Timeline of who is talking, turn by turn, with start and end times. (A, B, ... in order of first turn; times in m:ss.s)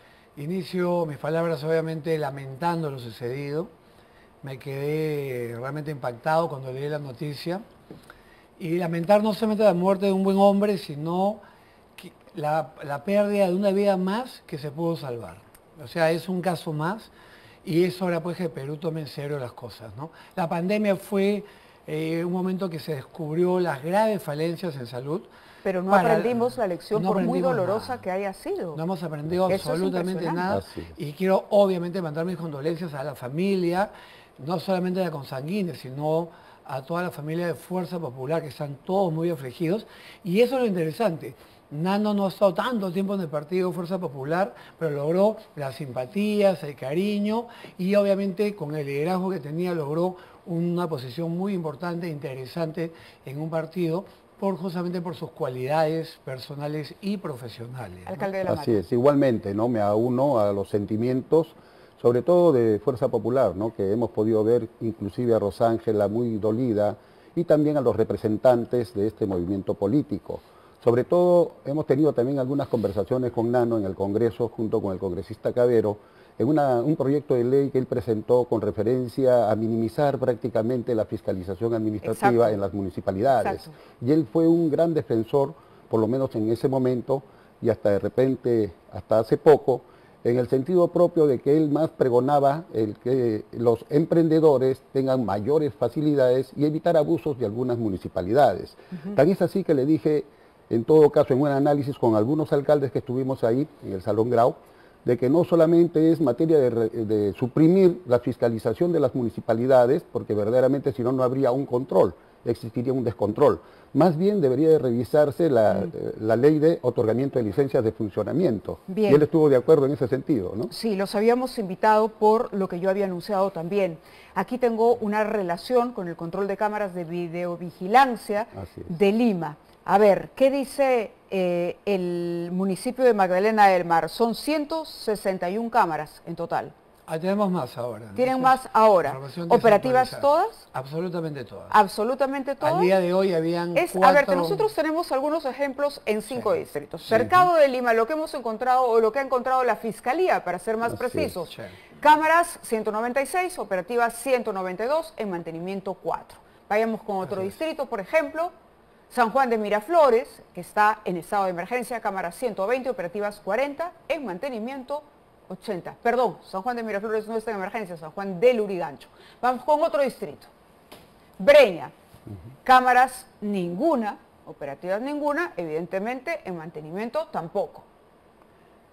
0:00.4-0:03.7 A
0:04.4-0:07.6 A
0:08.6-0:11.4 A
0:12.0-0:17.1 A
0:17.6-0:25.3 A
0:25.6-0:28.8 B
0:25.9-0:28.0 A
0:28.7-0:58.3 A
0:29.5-0:30.4 B
0:30.5-0:30.9 C
0:58.0-0:58.8 B
0:58.4-2:00.7 C
1:22.0-1:22.6 B
1:23.3-1:23.7 B
1:58.9-1:59.2 B
2:00.7-2:16.7 B
2:08.6-2:08.9 C
2:17.1-2:21.8 A
2:18.1-2:20.6 B
2:21.7-2:22.9 B
2:22.6-2:24.7 A
2:23.7-2:38.5 B
2:26.3-2:26.6 A
2:30.9-2:31.3 C
2:31.5-2:31.8 A
2:37.2-2:37.5 A
2:39.1-2:50.5 B
2:51.4-2:51.9 B
2:52.6-2:57.9 B